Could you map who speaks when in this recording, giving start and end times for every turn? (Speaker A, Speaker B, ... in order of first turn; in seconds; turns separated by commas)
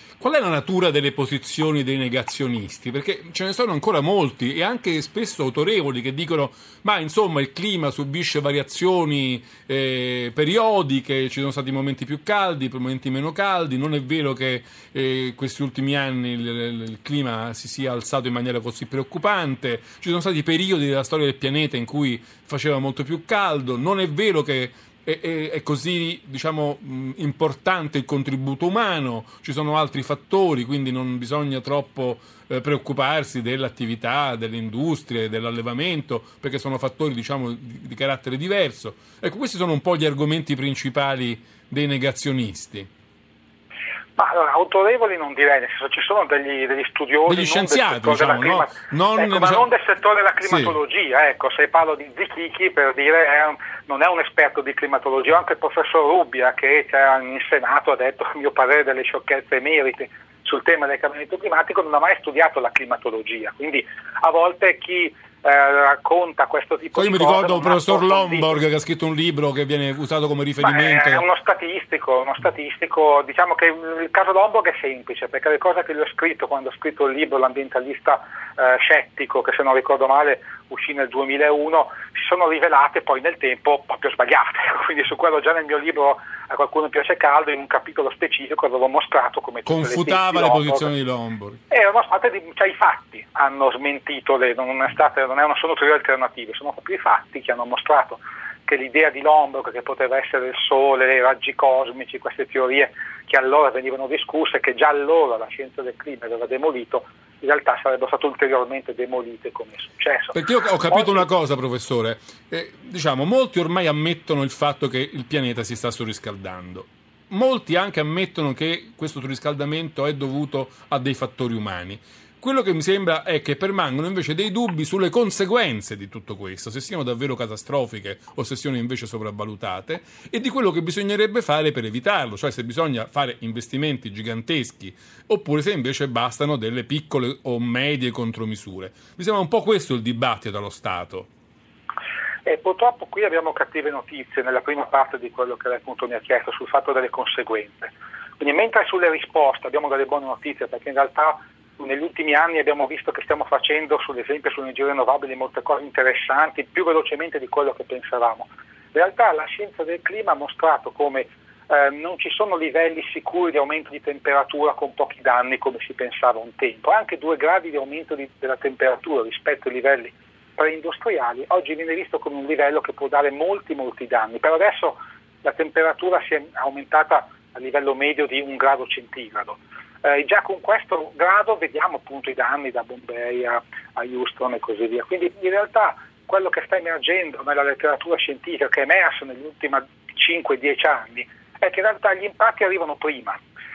Speaker A: 0.2-42.9, Speaker B: 44.2-68.6, Speaker A: 47.3-49.7, Speaker A: 50.4-50.8, Speaker A: 67.0-71.2, Speaker B: 70.6-90.9, Speaker A: 89.7-91.6, Speaker B: 91.7-110.4, Speaker A: 110.3-141.3, Speaker B: 110.9-111.3, Speaker B: 142.4-193.4